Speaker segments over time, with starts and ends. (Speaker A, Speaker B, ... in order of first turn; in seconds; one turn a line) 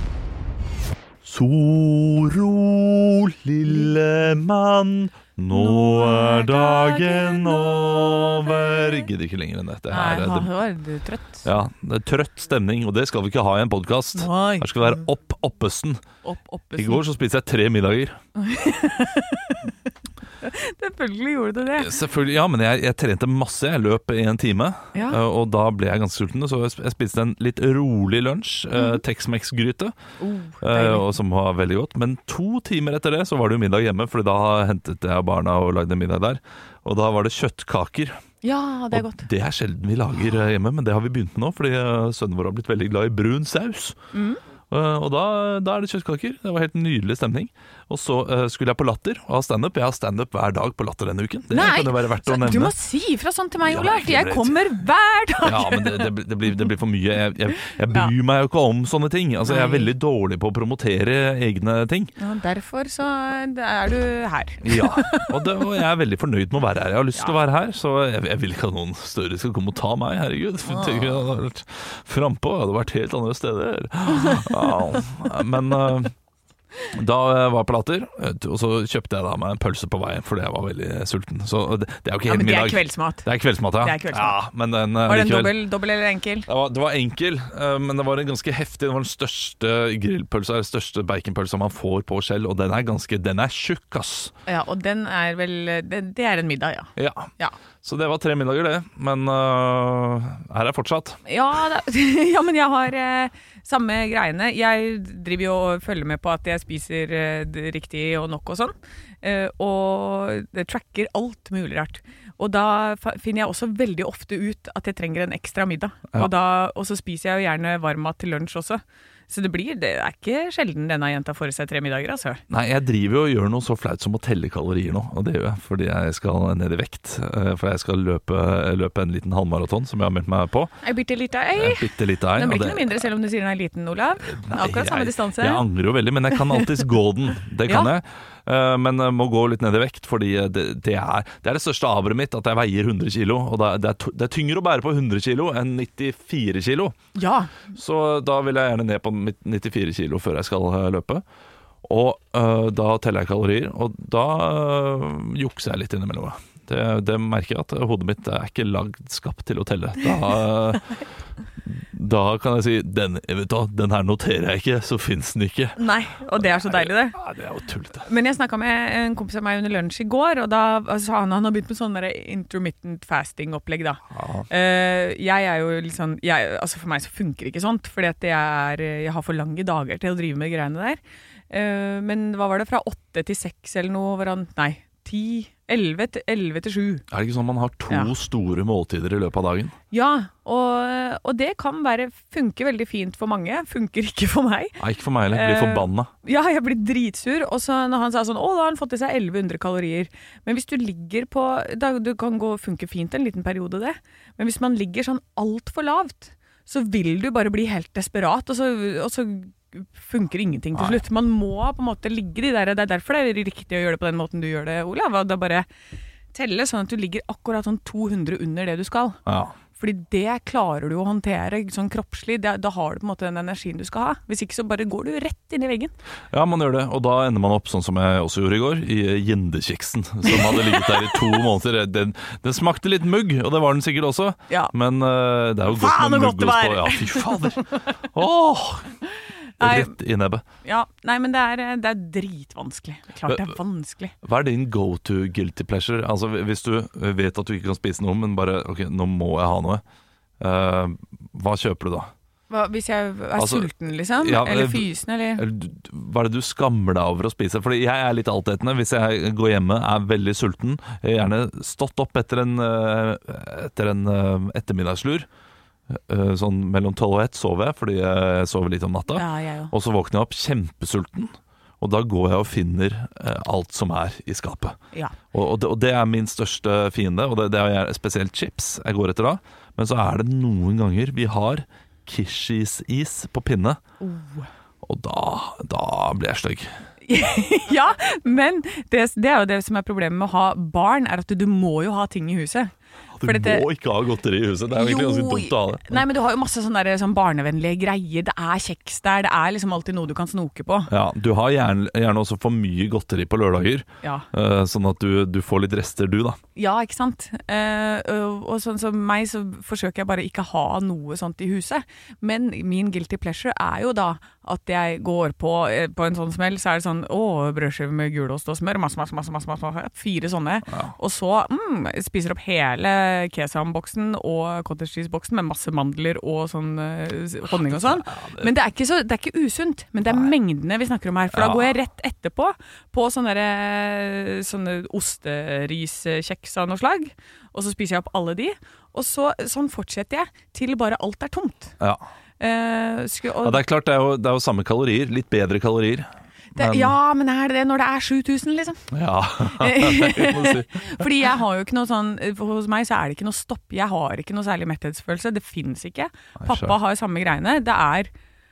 Speaker A: 1.2-10.5
Speaker B: 3.6-3.9
Speaker B: 5.5-8.8
Speaker B: 9.9-11.4
Speaker A: 11.4-16.0
Speaker B: 14.2-15.0
Speaker B: 16.2-17.0
Speaker A: 16.8-18.1
Speaker B: 18.4-19.7
Speaker B: 20.4-21.9
Speaker A: 21.8-29.9
Speaker B: 24.9-25.2
Speaker B: 28.7-29.0
Speaker B: 30.2-31.1
Speaker A: 30.6-38.2
Speaker B: 38.4-39.3
Speaker A: 38.9-44.0
Speaker B: 44.1-44.4
Speaker A: 44.7-52.7
Speaker B: 51.5-56.1
Speaker A: 53.6-54.6
Speaker A: 55.4-62.1
Speaker B: 59.5-59.9
Speaker B: 62.2-65.4
Speaker A: 64.6-76.1
Speaker B: 74.3-74.8
Speaker A: 76.9-85.5
Speaker B: 82.3-83.3
Speaker B: 83.8-84.4
Speaker B: 85.1-86.5
Speaker A: 86.5-94.3
Speaker B: 94.5-97.5
Speaker A: 97.0-97.3
Speaker A: 97.8-101.2
Speaker B: 101.3-122.4
Speaker A: 122.5-130.7
Speaker B: 130.8-135.7
Speaker A: 131.6-133.0
Speaker A: 134.3-146.9
Speaker B: 147.2-147.6
Speaker A: 147.7-151.2
Speaker A: 151.8-161.0
Speaker A: 161.7-165.8
Speaker B: 165.8-167.2
Speaker A: 166.3-168.1
Speaker B: 168.1-187.1
Speaker A: 174.1-174.5
Speaker A: 187.1-189.7
Speaker B: 189.9-194.8
Speaker A: 194.8-196.1
Speaker B: 195.3-215.7
Speaker A: 210.7-211.0
Speaker B: 216.3-219.2
Speaker A: 219.3-219.6
Speaker B: 219.8-225.9
Speaker A: 226.3-239.0
Speaker B: 230.3-231.4
Speaker B: 235.7-237.7
Speaker A: 239.6-240.4
Speaker B: 239.6-239.9
Speaker B: 240.6-244.1
Speaker A: 243.3-243.5
Speaker A: 244.2-249.8
Speaker A: 250.4-252.1
Speaker B: 252.5-255.4
Speaker A: 253.4-265.3
Speaker A: 265.9-274.8
Speaker B: 269.1-269.7
Speaker A: 275.3-283.8
Speaker B: 284.0-284.5
Speaker A: 284.8-286.7
Speaker B: 287.1-292.7
Speaker A: 293.1-296.0
Speaker B: 293.2-293.6
Speaker B: 294.8-300.9
Speaker A: 300.9-306.4
Speaker B: 306.6-341.7
Speaker A: 327.5-328.5
Speaker A: 330.0-330.3
Speaker A: 331.3-331.8
Speaker B: 342.4-343.6
Speaker A: 343.4-346.9
Speaker B: 346.6-348.8
Speaker A: 348.9-351.1
Speaker B: 349.5-358.1
Speaker A: 356.4-356.8